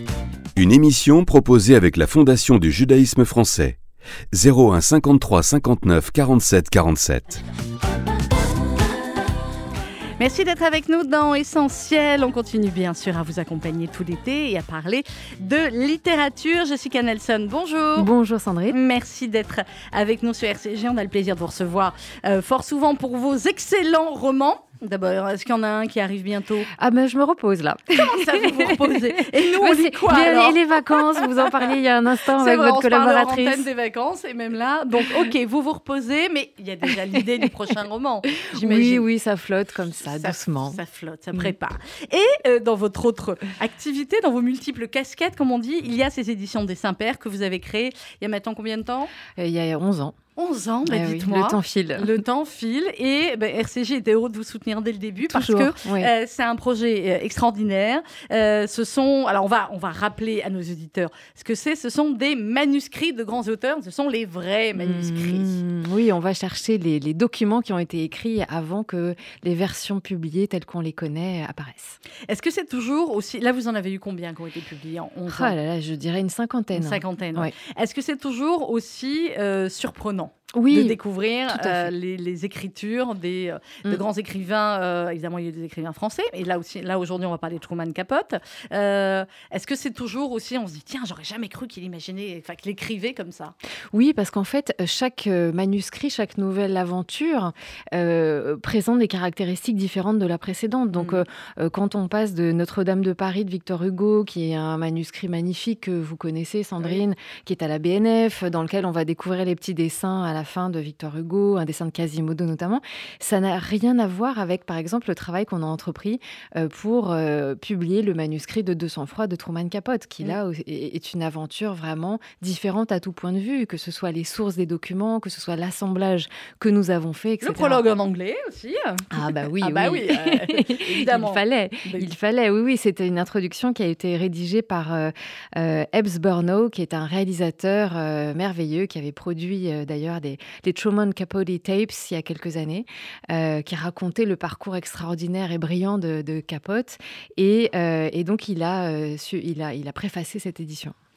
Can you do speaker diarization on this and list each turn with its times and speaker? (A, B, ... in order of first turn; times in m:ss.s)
0:00.6-0:03.8 A
0:04.3-0:07.4 A
0:10.2-0:18.1 B
0:18.0-0:18.8 C
0:18.7-0:26.7 B
0:26.7-0:33.6 C
0:27.9-0:31.7 B
0:32.3-0:39.0 B
0:38.4-0:40.8 C
0:40.1-0:49.1 B
0:49.4-0:50.2 C
0:50.4-1:05.6 B
0:50.8-0:52.1 C
0:55.2-0:56.1 C
1:04.8-1:12.0 C
1:12.3-1:15.5 B
1:15.3-1:17.5 C
1:16.7-1:33.5 B
1:20.5-1:21.0 C
1:21.5-1:21.9 C
1:33.9-2:07.8 C
1:40.9-1:41.2 B
2:07.4-2:12.1 B
2:09.1-2:30.9 C